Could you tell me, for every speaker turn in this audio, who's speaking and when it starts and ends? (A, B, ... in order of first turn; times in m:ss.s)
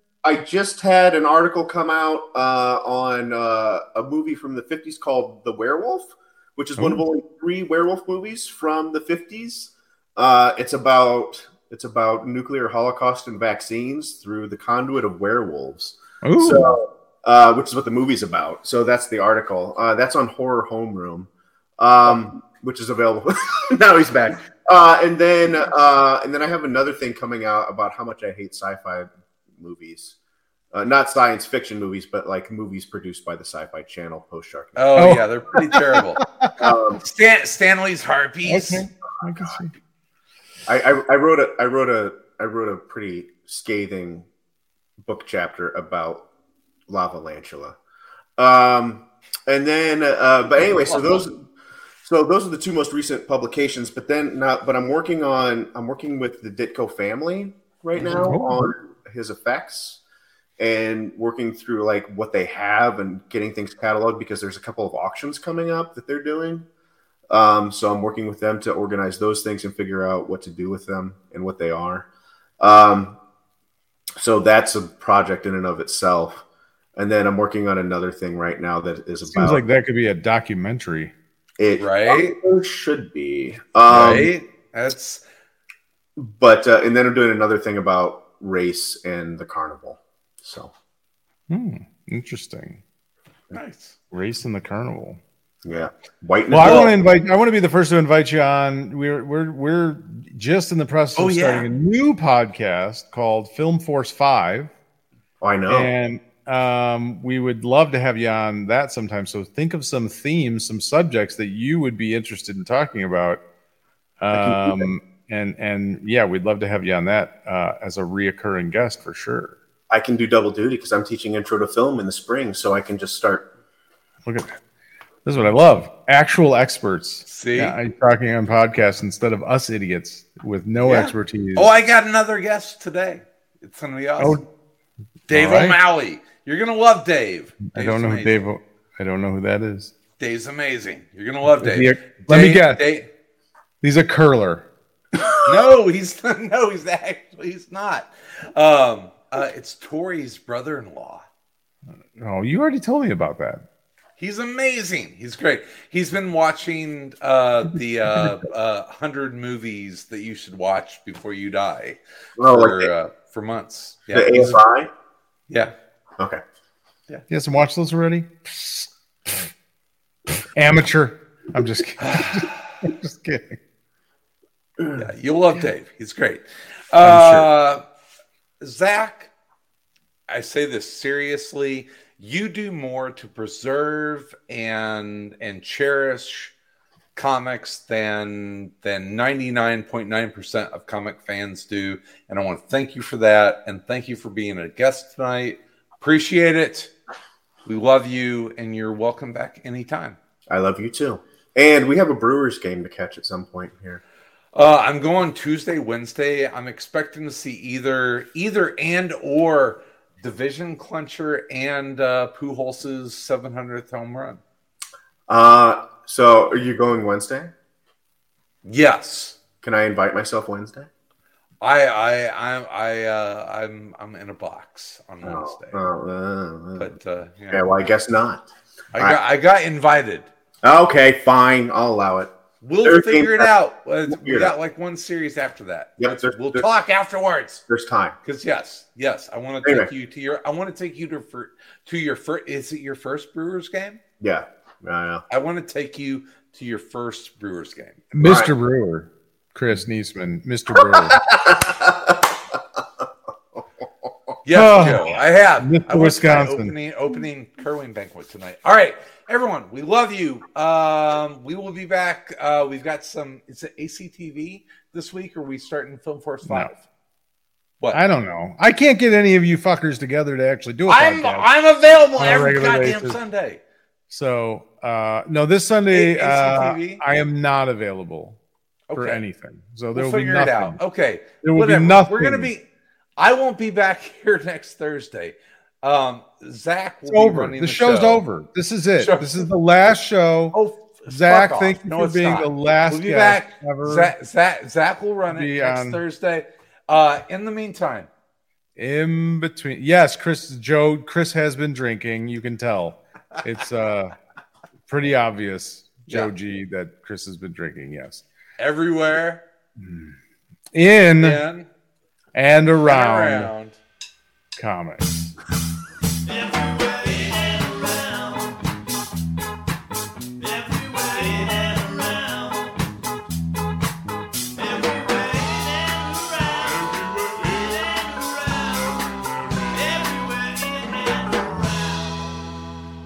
0:00.2-0:30.2 A
0:16.2-0:16.7 B
0:30.7-0:35.1 A
0:34.8-0:36.2 C
0:35.0-0:36.7 B
0:36.6-0:37.0 A
0:37.0-0:38.8 C
0:38.4-0:39.7 B
0:40.7-0:44.3 A
0:45.0-0:46.2 A
0:46.9-0:47.8 A
0:48.4-0:51.5 A
0:50.8-0:51.2 C
0:52.0-1:00.0 A
0:58.1-0:58.6 B
1:00.6-1:06.7 A
1:07.3-1:12.1 A
1:12.6-1:13.2 A
1:14.2-1:16.4 A
1:17.0-1:19.7 A
1:19.3-1:21.1 B
1:21.6-1:24.3 A
1:21.8-1:22.4 C
1:23.9-1:25.2 C
1:26.2-1:30.7 A
1:31.5-1:32.8 B
1:33.5-1:34.0 C
1:34.1-1:35.2 B
1:35.6-1:36.9 A
1:36.5-1:44.7 B
1:41.2-1:41.7 C
1:45.4-1:45.9 A
1:45.7-1:53.4 B
1:54.2-1:59.6 B
1:54.3-1:54.9 A
1:59.9-2:03.4 A
2:05.2-2:11.7 B
2:07.3-2:07.8 C
2:10.8-2:14.4 C
2:14.2-2:14.4 B
2:15.3-2:15.8 B
2:15.3-2:18.4 C
2:17.7-2:19.9 B
2:20.2-2:23.1 C
2:21.6-2:22.8 B
2:23.8-2:24.6 B
2:25.4-2:31.2 C
2:32.1-2:33.6 B
2:34.2-2:44.6 C
2:42.4-2:42.9 A
2:44.1-2:44.9 A
2:47.3-2:48.9 B
2:50.5-2:53.6 B
2:54.9-2:57.8 C
2:57.0-2:57.5 B
2:58.6-2:59.3 C
3:00.3-3:06.5 C
3:07.2-3:16.9 C
3:17.6-3:20.2 C
3:20.5-3:24.0 A
3:24.5-3:34.4 C
3:35.3-3:37.5 A
3:38.6-3:39.4 C
3:39.6-3:40.9 A
3:41.6-3:45.8 C
3:45.2-3:46.9 A
3:46.8-3:47.7 C
3:47.5-3:48.4 A
3:48.9-3:50.3 C
3:50.6-3:52.3 A
3:52.6-3:57.6 C
3:52.8-3:53.5 A
3:54.1-3:54.5 A
3:56.0-3:56.7 A
3:57.7-3:58.2 A
3:58.2-4:04.0 C
3:59.6-3:59.9 A
4:04.2-4:05.2 A
4:05.3-4:08.0 C
4:08.1-4:11.2 B
4:08.2-4:08.5 A
4:10.8-4:14.1 A
4:14.4-4:26.8 C
4:14.5-4:16.7 B
4:26.4-4:26.7 B
4:27.9-4:31.5 B
4:30.9-4:33.6 C
4:32.2-4:33.2 B
4:34.1-4:38.4 B
4:35.9-4:37.0 C
4:38.9-4:39.2 C
4:39.0-4:40.8 B
4:39.9-4:42.6 C
4:41.4-4:42.5 B
4:43.2-4:48.2 C
4:47.1-4:50.6 B
4:49.0-4:49.4 C
4:50.5-4:58.1 C
4:51.1-4:54.1 B
4:55.3-4:56.0 B
4:58.8-5:04.2 B
5:04.9-5:08.2 B
5:08.6-5:09.4 C
5:09.8-5:10.1 B
5:10.7-5:11.4 B
5:11.2-5:11.7 C
5:12.3-5:13.5 B
5:12.8-5:13.8 C
5:14.6-5:15.3 B
5:16.3-5:18.4 C
5:20.4-5:22.7 C
5:24.6-5:28.7 C
5:29.7-5:32.2 C